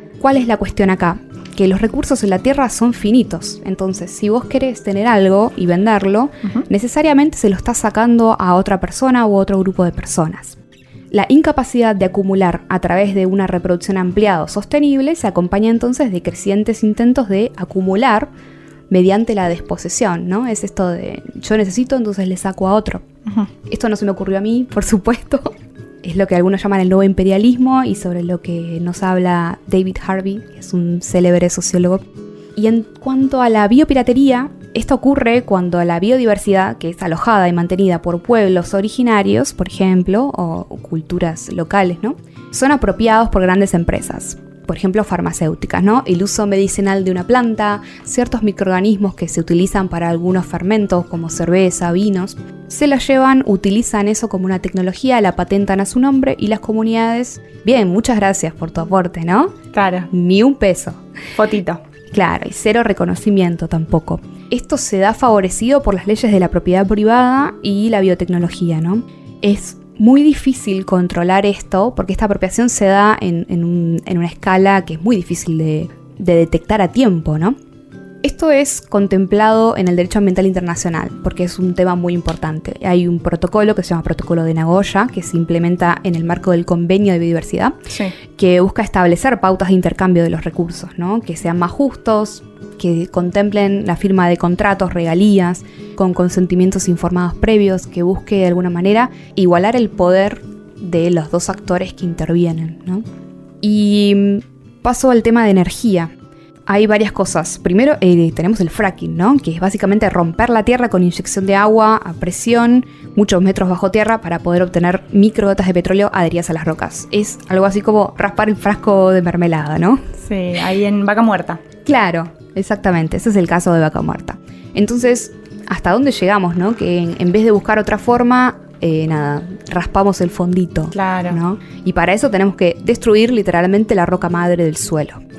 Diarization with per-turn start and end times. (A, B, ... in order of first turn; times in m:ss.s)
0:00.2-0:10.6 A
0:11.1-0:18.3 A
0:18.9-0:23.0 A
0:23.7-0:32.0 A
0:32.6-0:59.6 A
0:59.7-1:00.1 B
1:00.1-1:01.0 A
1:01.4-1:01.8 B
1:02.1-1:17.6 A
1:18.2-1:27.8 A
1:28.3-1:43.0 A
1:43.6-1:46.1 A
1:46.7-2:00.0 A
2:00.2-2:01.6 B
2:01.9-2:15.2 A
2:10.9-2:11.4 B